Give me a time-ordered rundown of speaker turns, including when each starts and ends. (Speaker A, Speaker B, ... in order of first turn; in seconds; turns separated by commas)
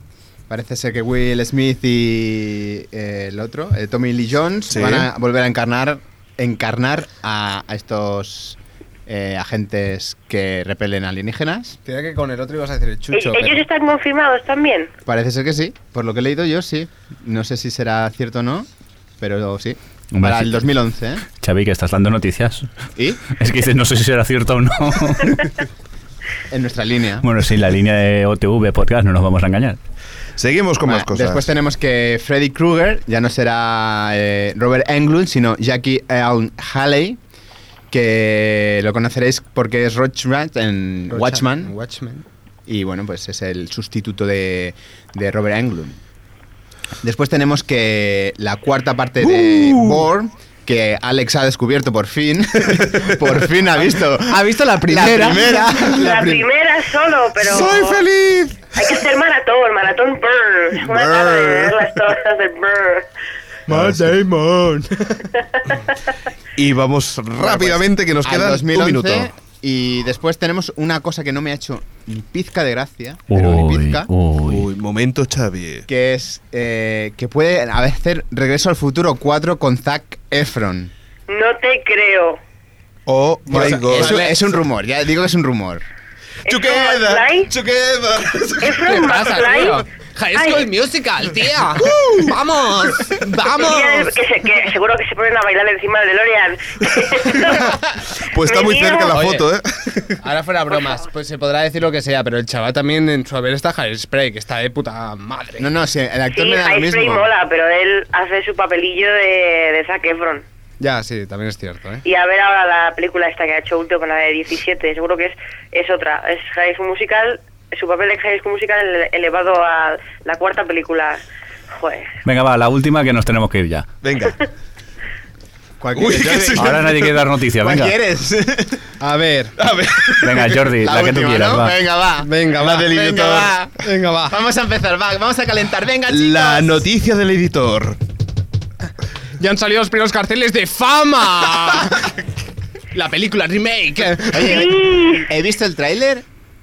Speaker A: 0.5-11.8, Speaker B: 4.7-5.1, Speaker C: 11.8-13.6, Speaker D: 13.1-14.9, Speaker A: 15.1-18.7, Speaker A: 19.2-21.2, Speaker E: 20.1-20.6, Speaker E: 21.3-22.7, Speaker A: 23.0-23.2, Speaker E: 23.3-25.6, Speaker A: 26.5-27.3, Speaker E: 27.2-29.8, Speaker B: 30.4-31.5, Speaker A: 30.9-37.2, Speaker A: 37.9-41.7, Speaker C: 41.1-42.2, Speaker A: 42.7-46.0, Speaker A: 47.0-56.1, Speaker C: 54.3-56.4, Speaker D: 55.9-58.0, Speaker B: 57.4-58.7, Speaker D: 58.7-63.1, Speaker B: 60.9-61.7, Speaker B: 63.7-64.0, Speaker A: 63.7-64.9, Speaker C: 63.8-65.2, Speaker B: 66.5-69.3, Speaker A: 67.4-74.1, Speaker E: 73.3-74.7, Speaker B: 74.4-75.9, Speaker A: 75.9-80.9, Speaker D: 81.3-82.4, Speaker B: 83.1-84.2, Speaker C: 83.5-84.4, Speaker A: 83.5-85.8, Speaker D: 86.5-87.5, Speaker B: 86.5-88.9, Speaker D: 88.6-89.8, Speaker C: 88.8-94.1, Speaker D: 90.3-90.7, Speaker B: 91.8-92.4, Speaker D: 93.6-97.8, Speaker B: 97.1-97.5, Speaker B: 98.1-100.2, Speaker D: 98.4-99.2, Speaker C: 99.1-99.4, Speaker C: 100.2-105.7, Speaker D: 100.7-101.0, Speaker A: 105.6-107.2, Speaker D: 106.3-110.4, Speaker C: 110.8-112.0, Speaker D: 112.0-121.2, Speaker D: 121.8-122.1, Speaker E: 122.2-123.9, Speaker B: 124.0-124.4, Speaker A: 125.8-126.7, Speaker B: 125.9-127.2, Speaker E: 126.5-127.9, Speaker A: 127.6-128.8, Speaker C: 129.0-129.5, Speaker B: 129.6-130.6, Speaker E: 130.2-131.7, Speaker A: 130.8-136.8, Speaker C: 132.2-134.3, Speaker B: 132.6-133.5, Speaker B: 136.1-138.0, Speaker C: 139.4-142.1, Speaker C: 142.9-144.7, Speaker A: 144.3-146.2, Speaker D: 144.4-145.3